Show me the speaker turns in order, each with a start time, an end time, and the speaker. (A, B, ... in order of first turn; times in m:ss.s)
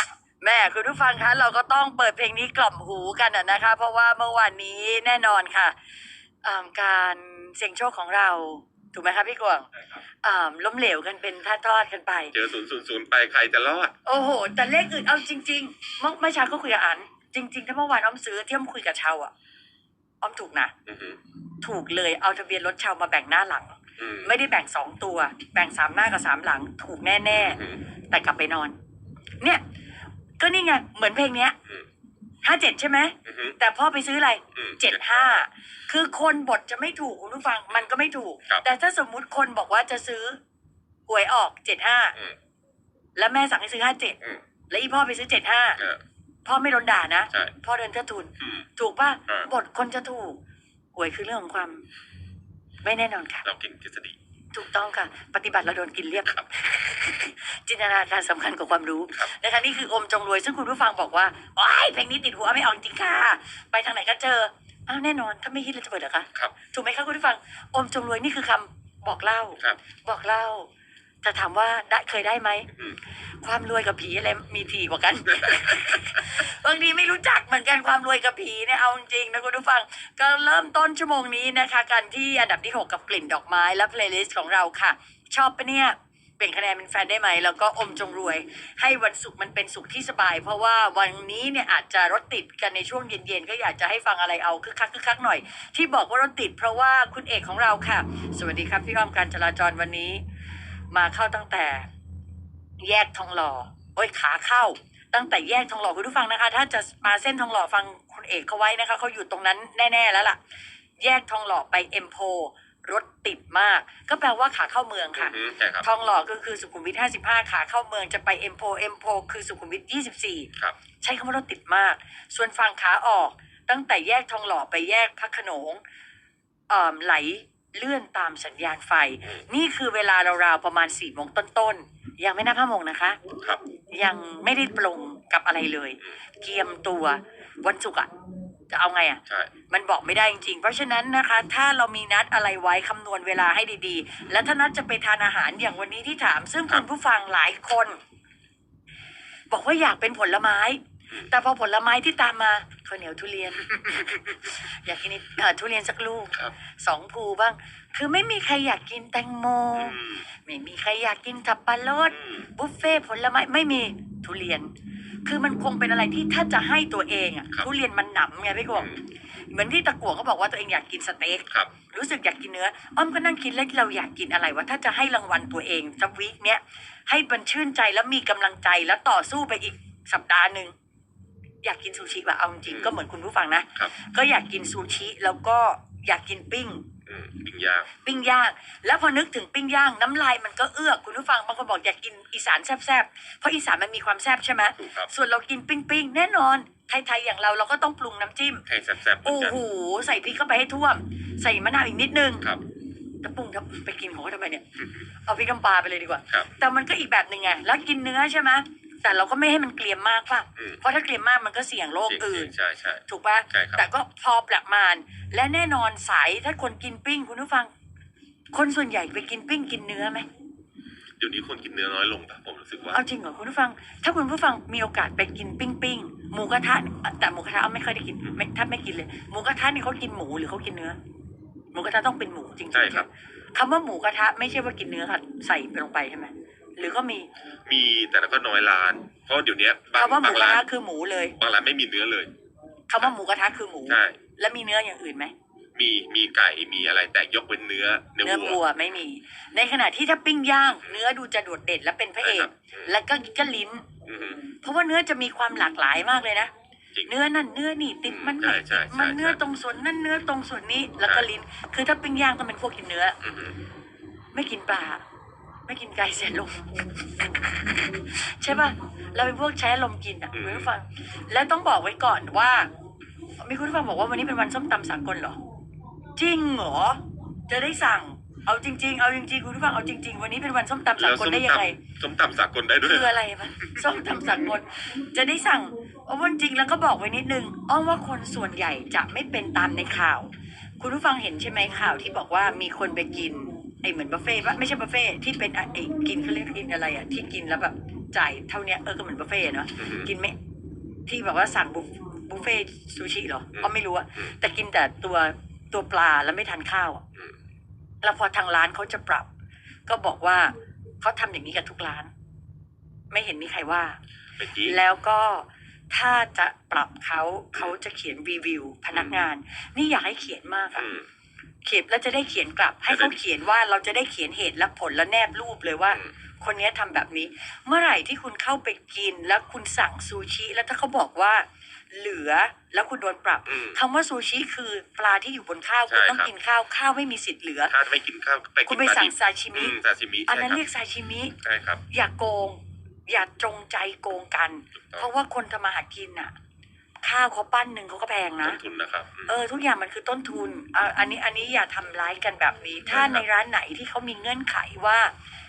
0:00.4-0:05.8 A
0:06.4-0:09.7 A
0:10.2-0:12.4 A
0:12.3-0:13.9 B
0:14.0-0:19.3 A
0:20.2-0:20.7 A
0:20.9-0:21.2 B
0:21.6-0:27.6 A
0:24.0-0:24.3 B
0:27.4-0:27.8 B
0:28.1-0:28.8 A
0:30.4-0:31.6 A
0:32.4-0:40.4 A
0:33.3-0:33.6 B
0:34.6-0:35.4 B
0:41.1-0:42.2 A
0:43.2-0:44.2 A
0:44.7-0:45.8 A
0:46.5-0:50.4 A
0:48.4-0:48.7 B
0:50.9-0:51.8 A
0:52.8-0:53.5 A
0:53.4-0:54.2 B
0:54.5-1:10.7 A
1:11.2-1:12.7 A
1:13.4-1:40.2 A
1:40.9-1:41.9 A
1:42.8-1:50.4 A
1:51.0-2:00.5 A
1:55.2-1:55.9 B
2:01.0-2:05.8 A
2:06.7-2:13.2 A
2:13.4-2:13.6 B
2:13.9-2:18.1 A
2:18.7-2:28.0 A
2:19.3-2:19.5 B
2:29.5-2:44.7 A
2:39.8-2:40.3 B
2:42.1-2:42.5 B
2:45.3-3:00.7 A
2:48.8-2:49.0 B
3:01.6-3:06.8 A
3:02.7-3:03.0 B
3:07.1-3:07.9 B
3:08.0-3:18.6 A
3:14.8-3:15.1 B
3:18.7-3:19.6 B
3:19.2-3:22.5 A
3:23.2-3:24.6 A
3:25.3-3:32.5 A
3:32.1-3:33.8 B
3:33.1-3:37.7 A
3:38.5-3:40.3 A
3:41.2-3:43.0 B
3:42.9-3:51.0 A
3:51.7-3:57.3 A
3:52.7-3:53.1 B
3:57.7-4:00.6 B
4:00.0-4:01.4 A
4:01.4-4:02.3 B
4:02.9-4:05.3 A
4:03.9-4:04.2 B
4:05.8-4:08.6 B
4:08.2-4:13.8 A
4:12.2-4:13.0 B
4:14.0-4:14.4 B
4:14.6-4:16.5 A
4:17.1-4:23.2 A
4:18.1-4:19.4 B
4:23.2-4:23.6 B
4:24.3-4:25.0 A
4:25.7-4:32.7 A
4:30.3-4:30.7 B
4:33.4-4:35.4 A
4:36.2-4:41.8 A
4:41.0-4:43.2 B
4:42.8-5:00.4 A
4:59.8-5:00.1 B
5:01.1-5:07.0 A
5:08.0-5:09.3 A
5:09.9-5:12.1 A
5:13.1-5:14.0 A
5:14.4-5:14.8 B
5:14.6-5:20.9 A
5:18.9-5:19.2 B
5:20.8-5:21.1 B
5:21.6-5:37.7 A
5:22.9-5:23.2 B
5:33.5-5:33.8 B
5:35.9-5:36.3 B
5:37.7-5:40.6 B
5:38.7-5:41.4 A
5:41.4-5:41.8 B
5:41.9-5:46.3 A
5:44.8-5:45.1 B
5:47.0-5:48.6 A
5:48.4-5:49.4 B
5:49.3-5:55.1 A
5:52.9-5:53.2 B